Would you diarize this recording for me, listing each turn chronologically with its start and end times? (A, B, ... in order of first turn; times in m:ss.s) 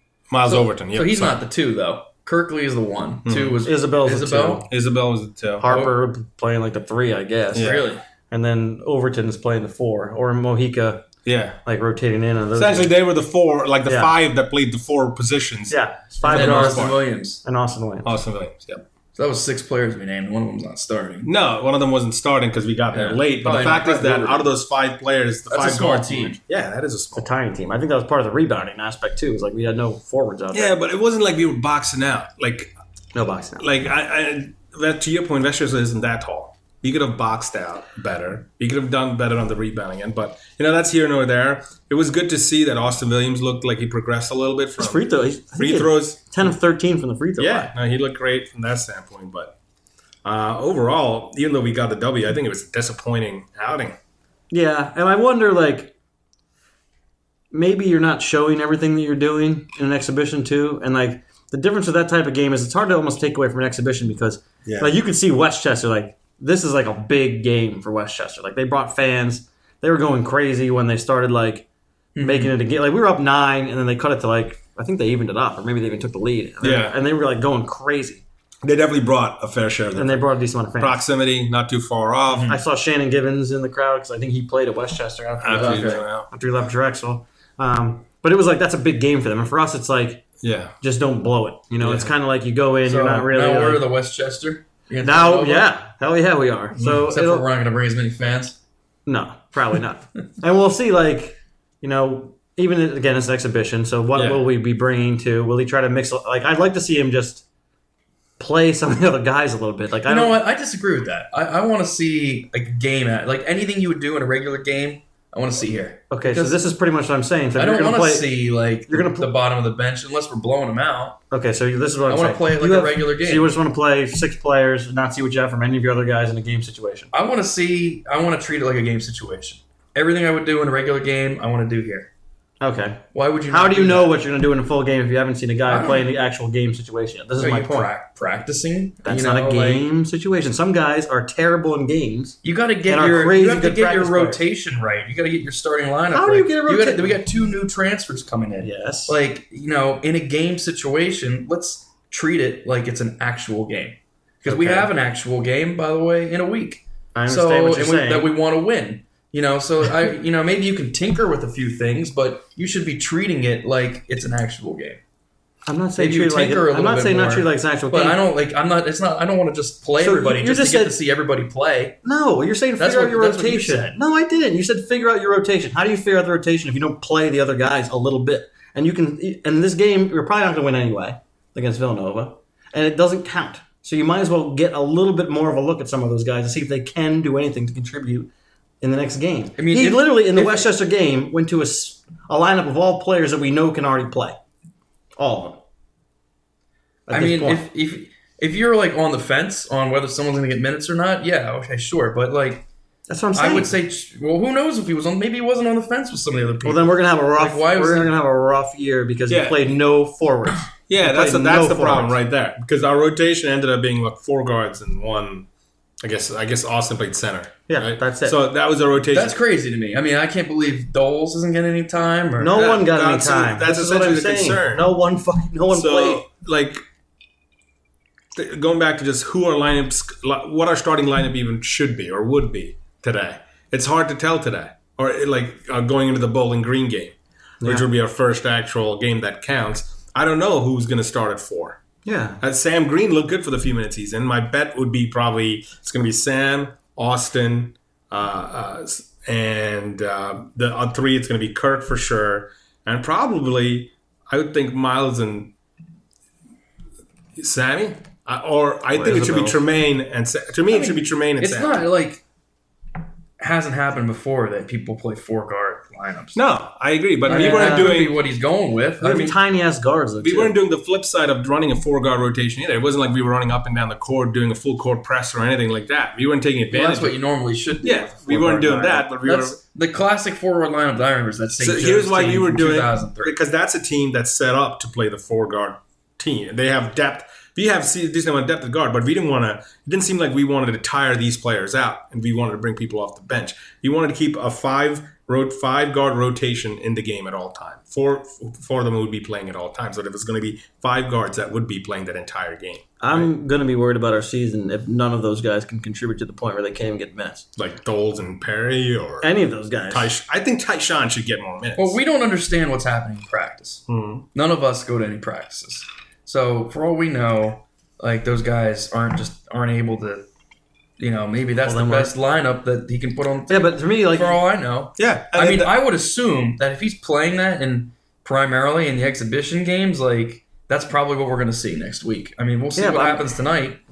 0:00.3-0:01.4 A
0:00.4-0:04.6 B
0:03.2-0:03.6 A
0:03.6-0:04.7 C
0:04.7-0:05.8 A
0:05.6-0:11.1 C
0:07.5-0:07.8 A
0:07.5-0:08.0 B
0:11.2-0:11.6 A
0:11.6-0:12.9 C
0:12.5-0:17.0 A
0:13.8-0:14.1 C
0:15.7-0:18.1 C
0:16.2-0:17.4 B
0:18.0-0:18.8 A
0:19.1-0:21.3 B
0:21.2-0:27.3 A
0:22.9-0:24.4 B
0:25.5-0:26.4 B
0:27.1-0:30.8 C
0:30.5-0:32.7 A
0:33.1-0:33.6 C
0:33.6-0:46.5 A
0:44.8-0:47.7 C
0:47.4-0:49.5 A
0:50.2-0:53.9 A
0:54.5-0:55.9 C
0:57.5-1:11.6 C
1:04.6-1:04.9 A
1:12.1-1:12.5 B
1:12.2-1:18.2 C
1:16.6-1:17.0 A
1:18.6-1:22.6 A
1:19.9-1:21.0 C
1:22.3-1:30.2 C
1:25.4-1:26.3 A
1:25.5-1:26.0 B
1:30.4-1:30.8 A
1:30.8-1:33.9 C
1:31.8-1:32.1 A
1:32.8-1:35.7 B
1:35.0-1:37.5 C
1:36.7-1:37.0 A
1:37.0-1:38.6 B
1:39.0-1:47.4 C
1:44.1-1:44.4 A
1:48.4-1:50.4 C
1:50.0-1:56.6 B
1:56.1-1:59.3 C
1:57.5-2:01.2 B
2:01.3-2:07.1 C
2:02.1-2:03.5 B
2:07.1-2:12.1 B
2:12.6-2:17.9 C
2:13.1-2:14.2 B
2:15.7-2:16.1 B
2:17.4-2:19.9 B
2:19.0-2:24.4 C
2:22.4-2:45.0 B
2:26.1-2:27.2 C
2:28.6-2:29.2 C
2:34.4-2:34.9 C
2:37.1-2:38.3 C
2:45.6-2:48.2 C
2:46.0-2:52.0 B
2:50.0-2:51.0 C
2:52.0-3:08.3 C
2:52.8-2:53.9 B
3:08.8-3:14.4 C
3:09.6-3:10.7 B
3:15.2-3:15.6 C
3:17.1-3:17.6 C
3:17.1-3:22.6 B
3:23.1-3:23.7 C
3:23.3-3:28.1 B
3:26.6-3:32.2 C
3:29.3-3:29.6 A
3:30.9-3:35.5 A
3:36.0-3:39.4 A
3:37.7-3:38.4 C
3:39.1-3:42.6 B
3:42.4-3:46.2 C
3:42.5-3:44.9 A
3:45.7-3:46.8 A
3:48.3-4:01.8 A
3:57.6-3:57.9 C
4:02.0-4:02.4 C
4:02.4-4:15.5 A
4:17.4-4:21.8 A
4:18.9-4:19.6 C
4:20.7-4:22.2 B
4:23.4-4:26.4 B
4:26.3-4:28.2 A
4:27.2-4:29.4 B
4:27.3-4:28.0 C
4:29.0-4:30.6 C
4:30.2-4:37.2 A
4:36.7-4:43.3 B
4:37.8-4:39.6 A
4:41.6-5:03.3 A
5:03.0-5:07.5 C
5:07.6-5:09.3 A
5:09.2-5:10.1 C
5:09.9-5:12.0 A
5:11.8-5:20.2 B
5:13.9-5:14.2 A
5:21.0-5:33.8 B
5:21.6-5:22.1 C
5:23.5-5:24.4 C
5:25.0-5:25.7 A
5:32.8-5:33.2 C